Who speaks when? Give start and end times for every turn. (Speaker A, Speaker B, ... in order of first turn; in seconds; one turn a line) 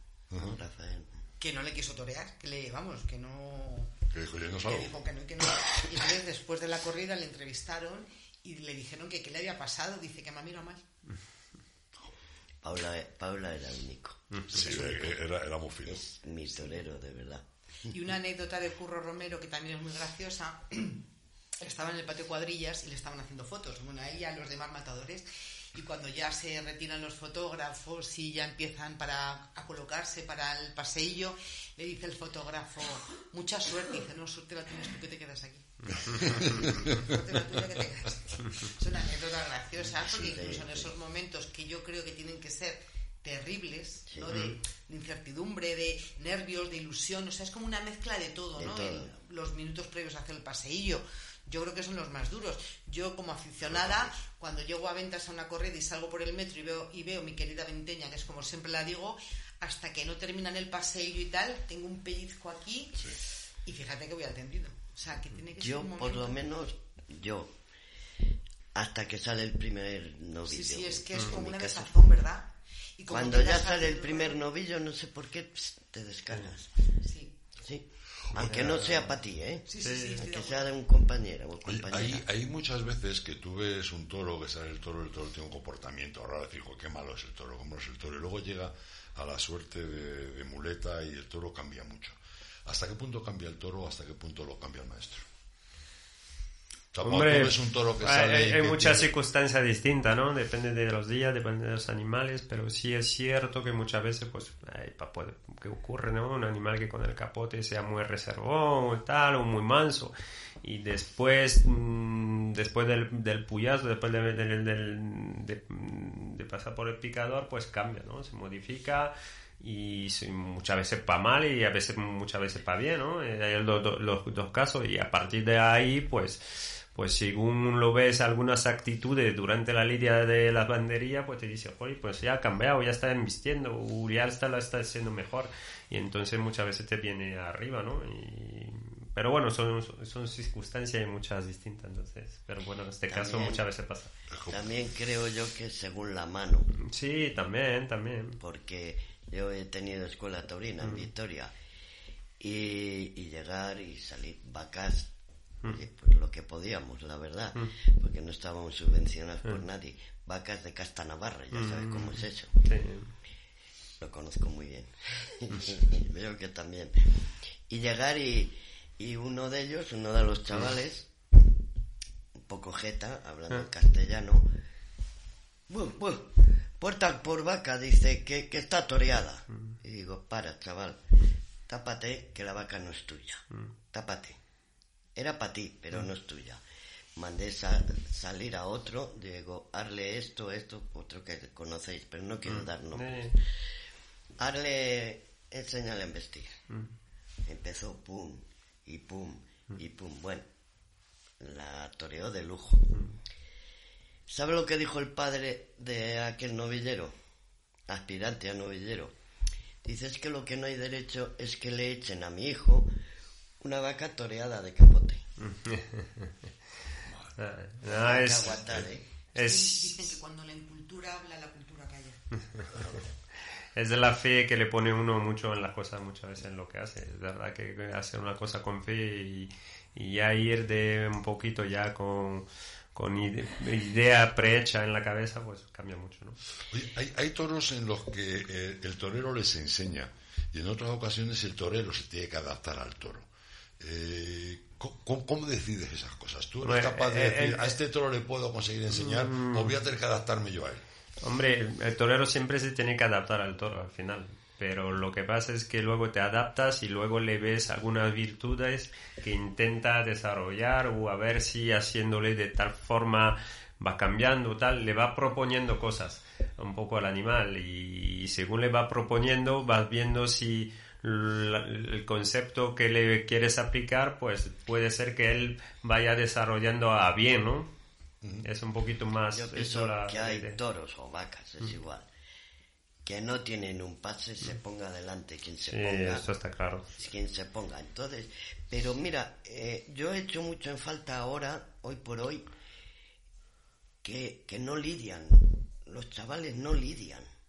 Speaker A: 0.3-0.6
Speaker B: 0.4-1.1
Speaker C: 1.4-3.9
Speaker A: 4.1-5.0
Speaker C: 4.6-10.8
Speaker B: 12.6-15.1
Speaker A: 14.5-16.0
Speaker B: 15.8-17.4
Speaker C: 17.9-21.1
Speaker C: 21.6-66.4
Speaker A: 36.1-37.2
Speaker B: 39.9-40.9
Speaker B: 44.1-44.5
Speaker B: 48.6-49.1
Speaker B: 65.6-67.5
Speaker B: 68.7-71.9
Speaker C: 70.4-74.4
Speaker B: 73.1-76.7
Speaker C: 77.0-77.3
Speaker B: 77.6-82.2
Speaker A: 78.3-78.7
Speaker D: 78.4-79.1
Speaker C: 79.7-80.7
Speaker D: 79.8-80.2
Speaker A: 81.7-95.2
Speaker A: 96.9-99.1
Speaker D: 97.0-144.1
Speaker B: 143.1-143.6
Speaker A: 144.3-144.7
Speaker B: 144.5-146.7
Speaker D: 146.8-148.4
Speaker B: 148.4-151.5
Speaker B: 152.4-155.1
Speaker B: 155.6-162.5
Speaker D: 161.5-163.1
Speaker B: 164.0-166.9
Speaker B: 167.7-171.1
Speaker B: 172.4-174.5
Speaker B: 175.7-181.0
Speaker B: 181.7-184.4
Speaker B: 185.2-186.6
Speaker B: 187.2-193.3
Speaker D: 192.4-193.3
Speaker B: 194.4-196.6
Speaker B: 197.4-200.4
Speaker B: 201.4-202.9
Speaker B: 204.3-207.1
Speaker B: 207.9-209.1
Speaker B: 209.8-212.9
Speaker B: 213.6-215.2
Speaker D: 215.4-216.3
Speaker A: 217.0-217.4
Speaker D: 217.4-218.6
Speaker B: 217.9-219.0
Speaker A: 218.7-218.9
Speaker D: 219.3-220.1
Speaker C: 219.3-222.2
Speaker D: 223.8-236.4
Speaker A: 236.7-243.3
Speaker A: 243.8-250.8
Speaker D: 246.6-247.8
Speaker D: 248.9-249.7
Speaker D: 251.2-277.7
Speaker D: 278.4-280.6
Speaker B: 279.3-282.1
Speaker B: 283.0-286.3
Speaker D: 285.6-286.9
Speaker B: 286.9-292.4
Speaker B: 294.0-297.3